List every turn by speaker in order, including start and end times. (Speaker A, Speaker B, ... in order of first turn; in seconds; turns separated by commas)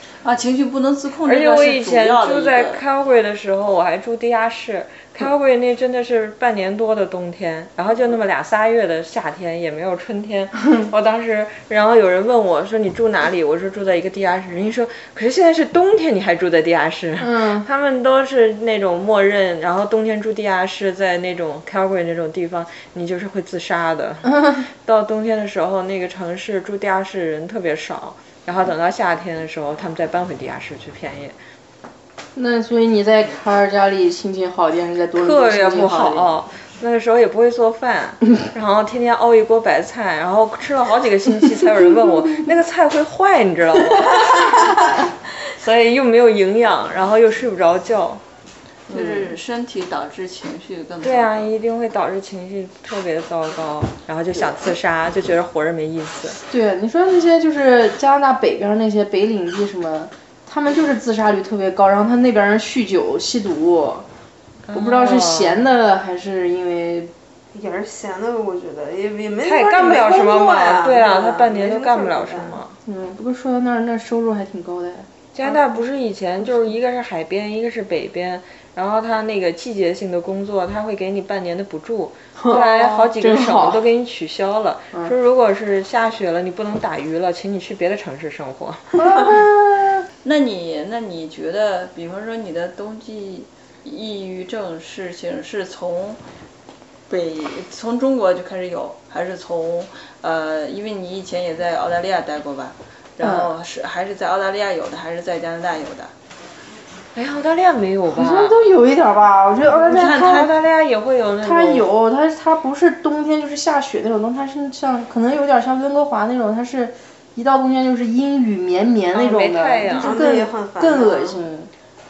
Speaker A: 0.2-2.8, Speaker B: 1.2-31.4, Speaker C: 17.2-17.7, Speaker C: 24.3-24.6, Speaker C: 32.4-36.3, Speaker B: 35.2-48.2, Speaker C: 48.9-49.4, Speaker A: 48.9-51.5, Speaker B: 51.0-56.4, Speaker C: 56.5-64.1, Speaker B: 64.7-65.7, Speaker C: 64.7-67.1, Speaker D: 67.5-72.6, Speaker B: 69.4-72.8, Speaker C: 72.8-75.1, Speaker B: 75.3-89.4, Speaker C: 82.4-83.8, Speaker C: 89.0-90.0, Speaker A: 90.2-96.2, Speaker A: 97.1-106.1, Speaker C: 103.2-103.5, Speaker B: 107.2-108.6, Speaker C: 108.1-110.5, Speaker A: 109.8-110.5, Speaker B: 109.9-111.9, Speaker C: 111.4-121.7, Speaker B: 119.1-120.2, Speaker D: 120.0-121.4